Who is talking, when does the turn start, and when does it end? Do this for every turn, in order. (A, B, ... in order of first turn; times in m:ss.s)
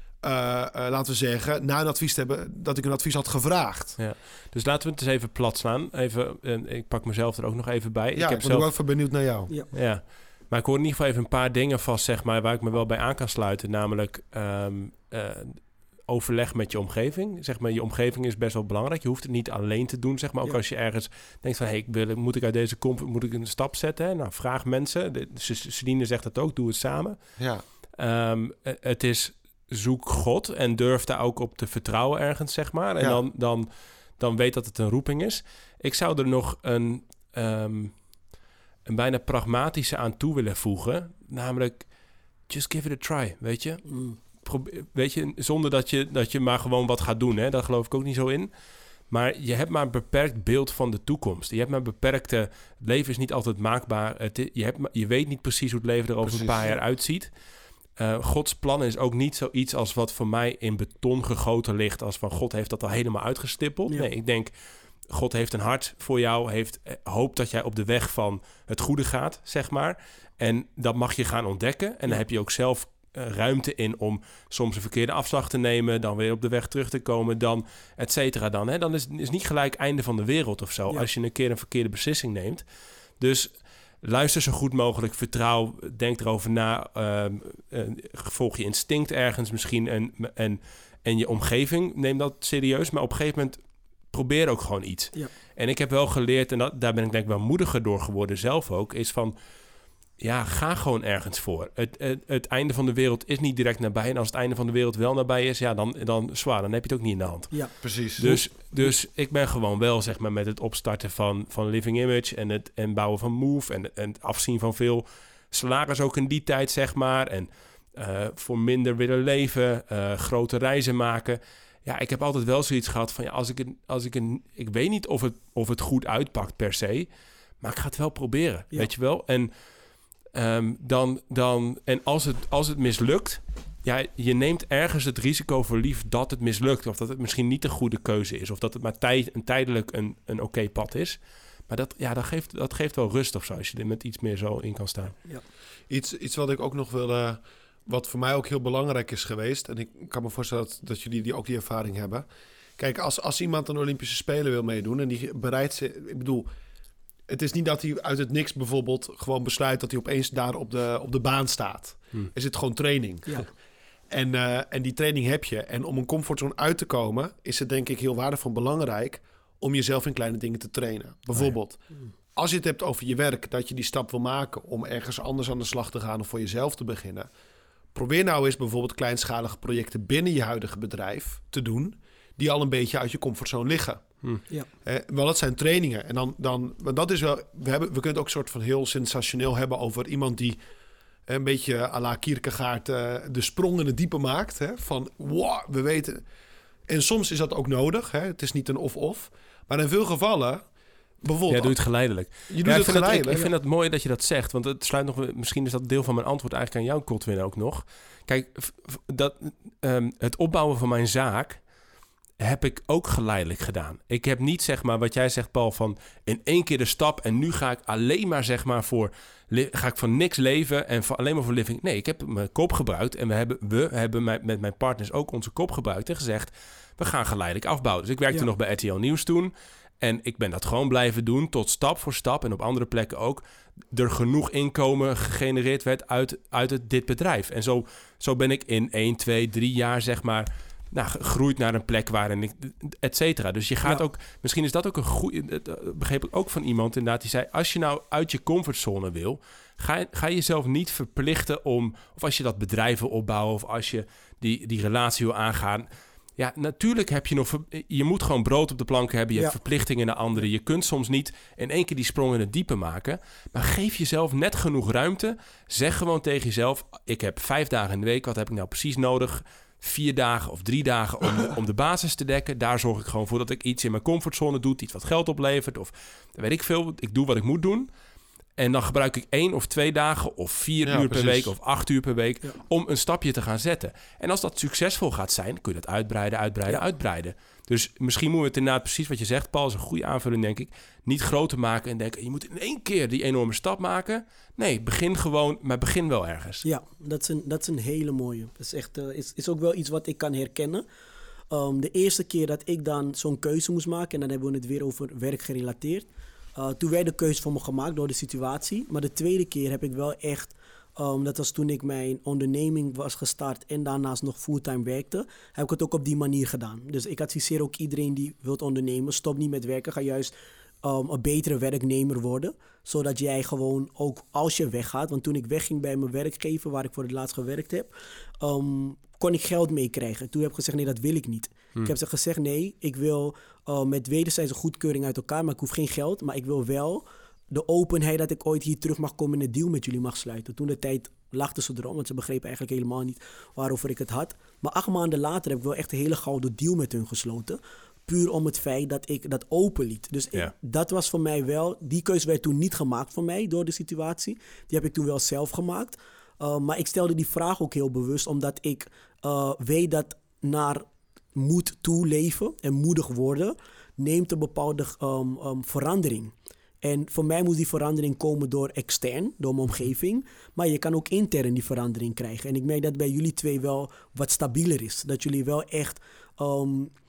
0:00.2-0:04.0 A
0:04.0-0:08.7 B
0:08.2-0:09.5 A
0:09.7-0:27.2 B
0:27.4-0:27.6 A
0:28.0-0:33.7 B
0:34.2-0:37.9 B
0:38.8-0:41.8 B
0:42.5-0:43.8 B
0:43.9-0:44.2 C
0:44.4-0:48.5 B
0:49.1-0:57.3 B
0:56.2-0:56.7 A
0:58.0-1:04.5 B
1:05.1-1:22.6 B
1:23.2-1:33.6 B
1:34.1-1:39.3 B
1:40.2-1:47.5 B
1:47.8-1:48.4 A
1:48.2-2:07.1 B
2:07.6-2:09.5 B
2:10.3-2:25.2 B
2:25.9-2:32.2 A
2:32.8-2:36.5 A
2:37.3-2:43.5 A
2:44.1-2:51.8 A
2:52.3-2:57.3 A
2:57.9-3:04.1 A
3:04.8-3:10.6 A
3:11.3-3:16.2 A
3:16.9-3:20.6 A
3:21.2-3:21.8 A
3:21.5-3:31.6 B
3:22.5-3:23.5 A
3:32.4-4:37.9 B
4:38.6-4:56.6 B
4:40.8-4:41.5 A
4:56.6-5:00.8 C
5:01.5-6:16.9 C